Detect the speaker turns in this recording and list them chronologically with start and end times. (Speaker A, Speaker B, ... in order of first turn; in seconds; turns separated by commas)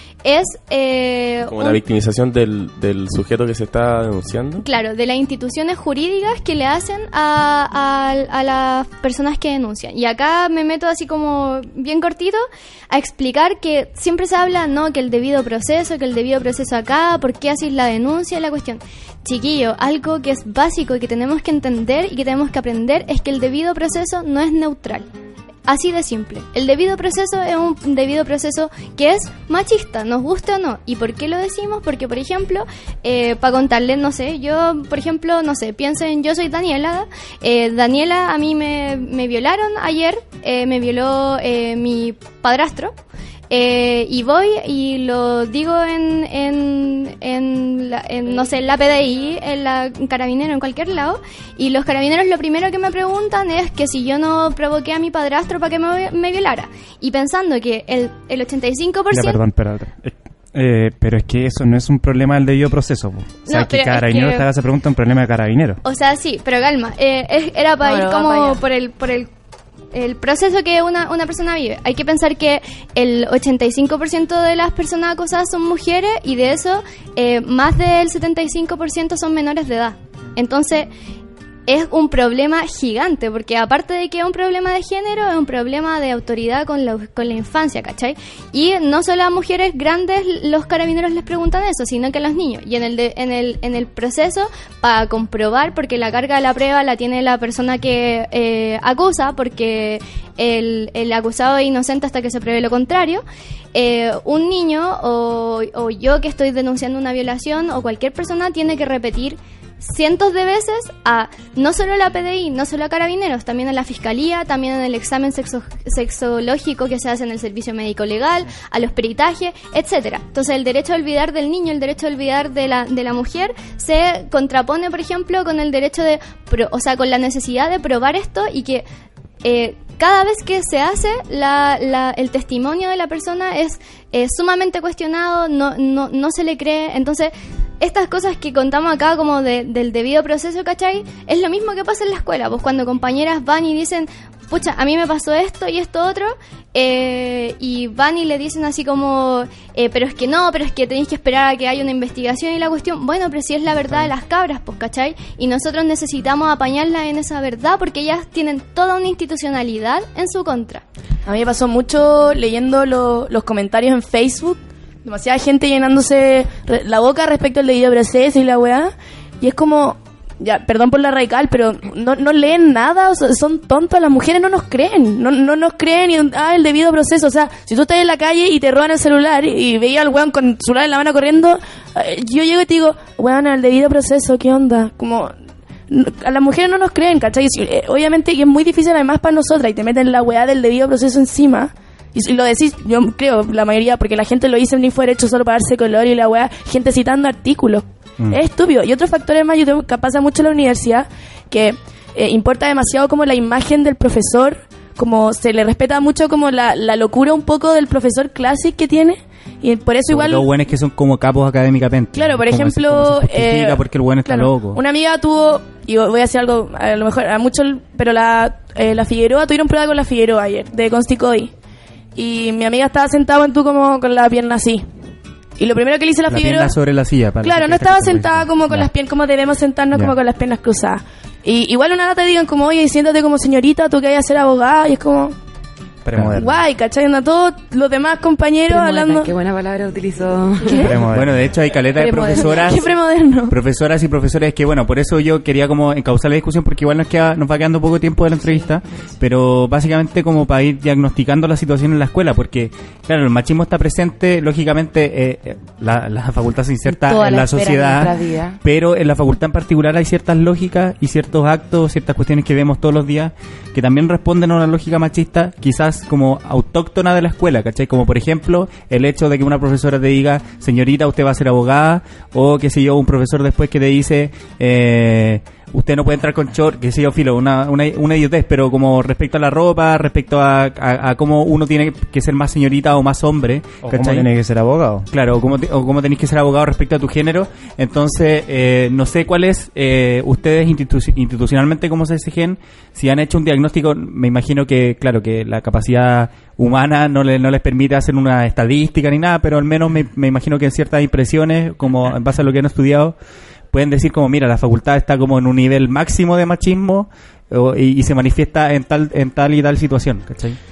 Speaker A: 0.2-1.8, Speaker B: 1.5-4.6, Speaker A: 4.6-25.1, Speaker A: 25.7-42.9, Speaker A: 43.5-59.4, Speaker C: 59.1-65.8, Speaker A: 63.5-64.5, Speaker A: 65.8-69.3, Speaker D: 67.8-68.6, Speaker A: 69.9-80.9, Speaker A: 81.7-128.8, Speaker A: 129.4-160.8, Speaker D: 161.2-185.3, Speaker D: 185.9-210.4, Speaker E: 210.1-214.8, Speaker D: 212.1-221.5, Speaker D: 222.2-224.8, Speaker D: 225.6-226.7, Speaker E: 226.3-228.9, Speaker D: 227.4-235.3, Speaker C: 236.0-236.6, Speaker E: 236.1-236.4, Speaker D: 236.4-239.3, Speaker F: 238.7-241.0, Speaker C: 240.8-241.4, Speaker E: 241.1-242.9, Speaker D: 241.9-243.5, Speaker E: 243.5-284.3, Speaker F: 256.9-258.6, Speaker C: 283.8-285.1, Speaker E: 285.1-303.1, Speaker E: 303.7-310.6